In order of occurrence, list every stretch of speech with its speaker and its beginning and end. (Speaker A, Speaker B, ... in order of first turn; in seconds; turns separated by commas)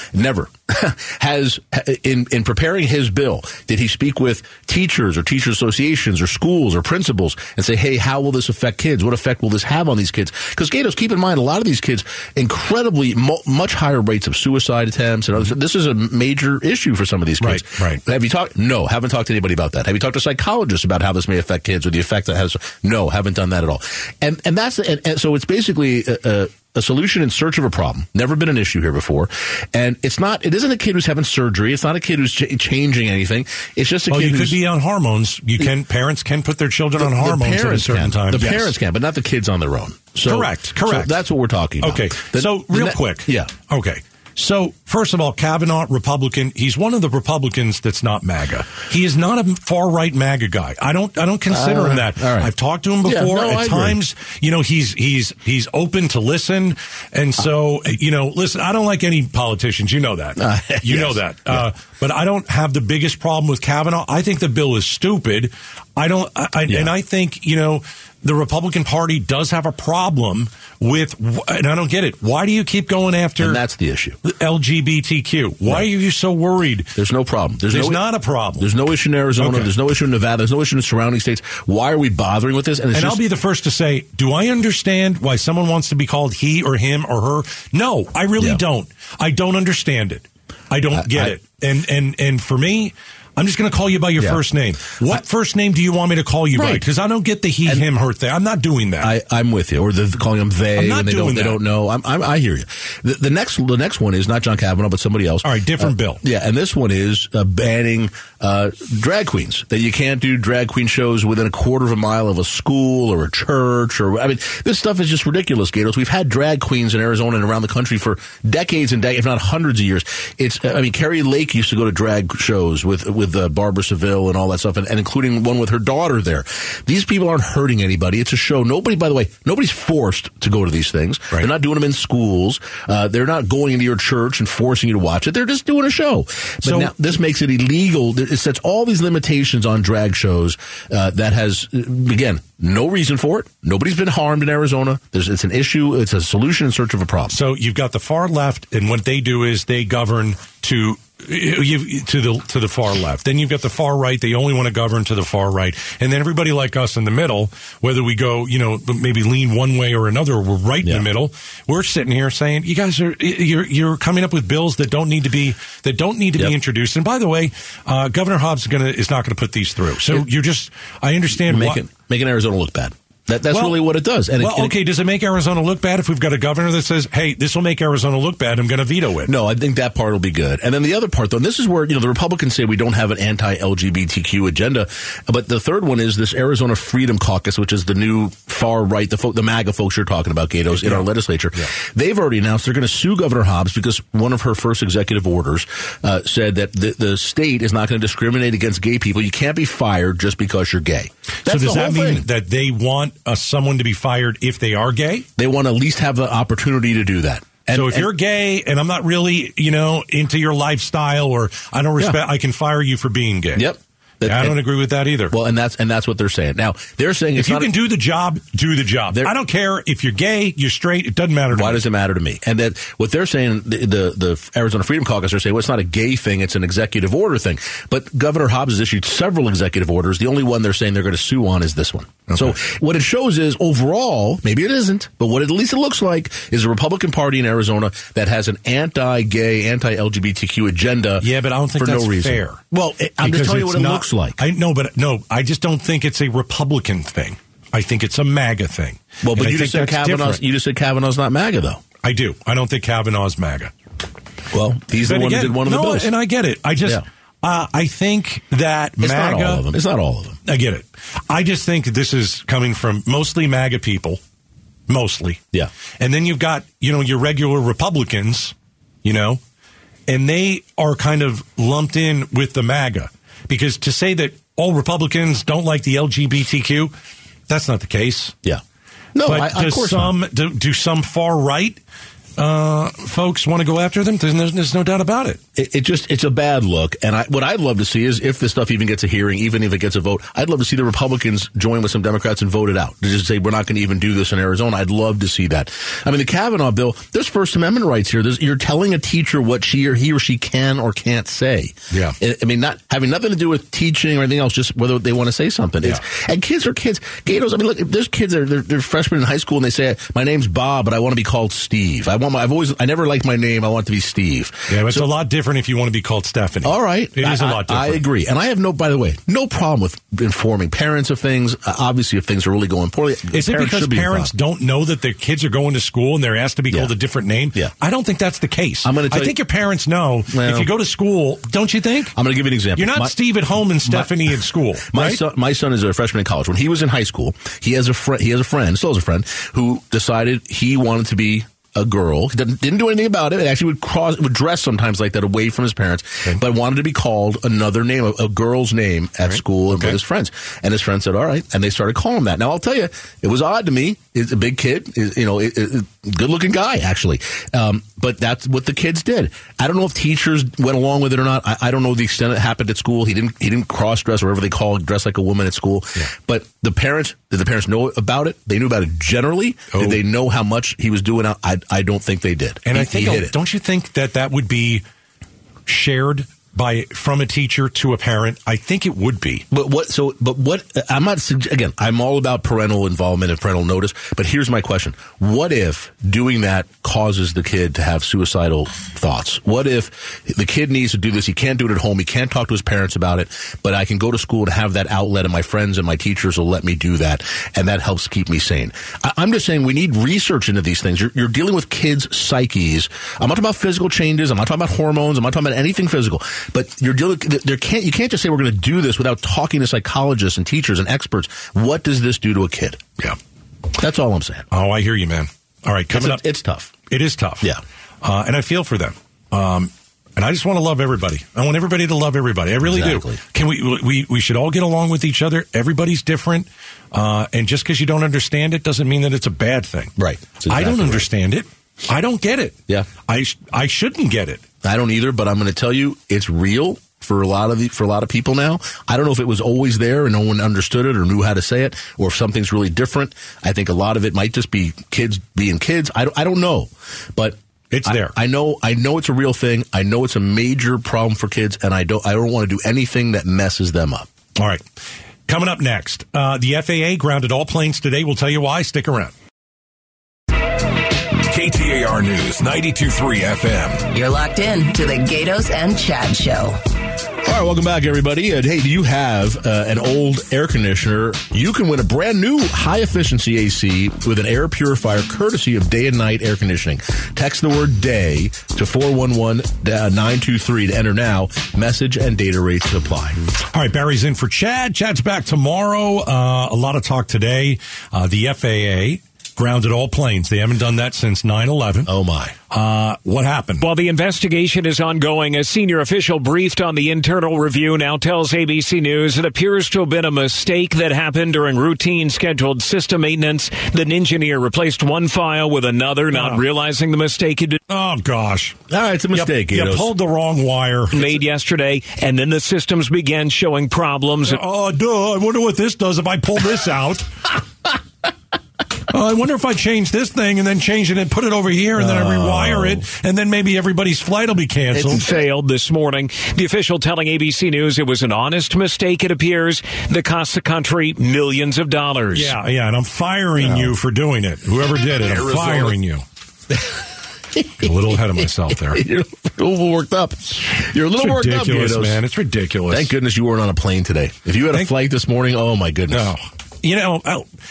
Speaker A: 0.1-34.6, Speaker B: 17.4-18.0, Speaker B: 34.1-38.7, Speaker A: 37.0-43.5, Speaker B: 40.2-41.2, Speaker B: 41.8-73.6, Speaker A: 51.5-52.5, Speaker A: 53.0-54.0, Speaker A: 60.4-61.7, Speaker A: 66.7-66.9, Speaker A: 73.4-74.2, Speaker B: 74.2-76.9, Speaker A: 77.0-78.0, Speaker B: 77.7-78.7, Speaker A: 78.5-83.2, Speaker B: 79.4-79.7, Speaker B: 82.9-99.1, Speaker A: 90.9-91.4, Speaker A: 96.5-96.8, Speaker A: 99.0-147.4, Speaker B: 100.8-101.6, Speaker B: 105.4-106.2, Speaker B: 136.6-136.9, Speaker B: 147.3-171.8, Speaker A: 171.4-174.8, Speaker B: 173.5-179.3, Speaker A: 179.3-202.3, Speaker B: 190.7-191.1, Speaker B: 201.4-205.3, Speaker A: 205.4-208.1, Speaker B: 207.7-213.7, Speaker A: 213.6-214.6, Speaker B: 214.2-215.3, Speaker A: 215.3-217.8, Speaker B: 217.4-221.8, Speaker A: 221.5-241.3, Speaker B: 241.2-242.6, Speaker A: 241.8-244.4, Speaker B: 243.2-250.4, Speaker A: 249.2-251.8, Speaker B: 252.0-253.7, Speaker A: 254.5-256.1, Speaker B: 254.9-259.7, Speaker A: 259.0-260.4, Speaker B: 260.5-264.2, Speaker B: 264.9-265.4, Speaker B: 266.0-269.4, Speaker B: 270.1-276.9, Speaker B: 277.5-278.4, Speaker A: 279.1-280.1, Speaker B: 279.3-281.8, Speaker B: 282.4-285.4, Speaker A: 285.6-315.1, Speaker B: 301.9-302.2, Speaker B: 314.7-318.0, Speaker A: 316.6-324.3, Speaker B: 323.3-332.2, Speaker A: 328.8-329.4, Speaker A: 330.3-330.7, Speaker A: 332.2-333.2, Speaker B: 332.8-335.2, Speaker A: 333.8-334.1, Speaker A: 334.9-373.4, Speaker B: 349.3-350.0, Speaker B: 369.7-370.0, Speaker B: 372.6-374.8, Speaker B: 375.7-379.4, Speaker A: 379.5-412.8, Speaker A: 413.8-414.5, Speaker B: 414.5-416.2, Speaker A: 415.9-416.7, Speaker B: 416.9-417.5, Speaker B: 418.0-429.9, Speaker A: 422.6-423.2, Speaker A: 430.0-431.1, Speaker B: 430.5-434.4, Speaker A: 434.6-454.1, Speaker B: 447.7-448.1, Speaker B: 454.4-454.6, Speaker B: 455.3-459.1, Speaker B: 461.3-463.5, Speaker C: 461.3-463.8, Speaker D: 463.9-466.6, Speaker A: 467.2-483.2, Speaker B: 483.5-491.9, Speaker A: 491.9-492.4, Speaker B: 492.5-493.7, Speaker E: 493.6-507.6, Speaker B: 506.1-506.4, Speaker B: 507.7-508.6, Speaker A: 508.7-509.9, Speaker B: 509.1-511.1, Speaker E: 510.9-514.4, Speaker B: 514.3-517.3, Speaker B: 518.9-525.0, Speaker A: 521.8-522.8, Speaker A: 524.7-525.0, Speaker E: 524.8-532.4, Speaker B: 532.1-536.0, Speaker A: 533.4-533.7, Speaker A: 535.0-535.7, Speaker A: 537.4-537.7, Speaker B: 537.6-538.8, Speaker A: 538.6-542.0, Speaker B: 541.0-542.9, Speaker A: 542.7-546.1, Speaker B: 545.9-547.3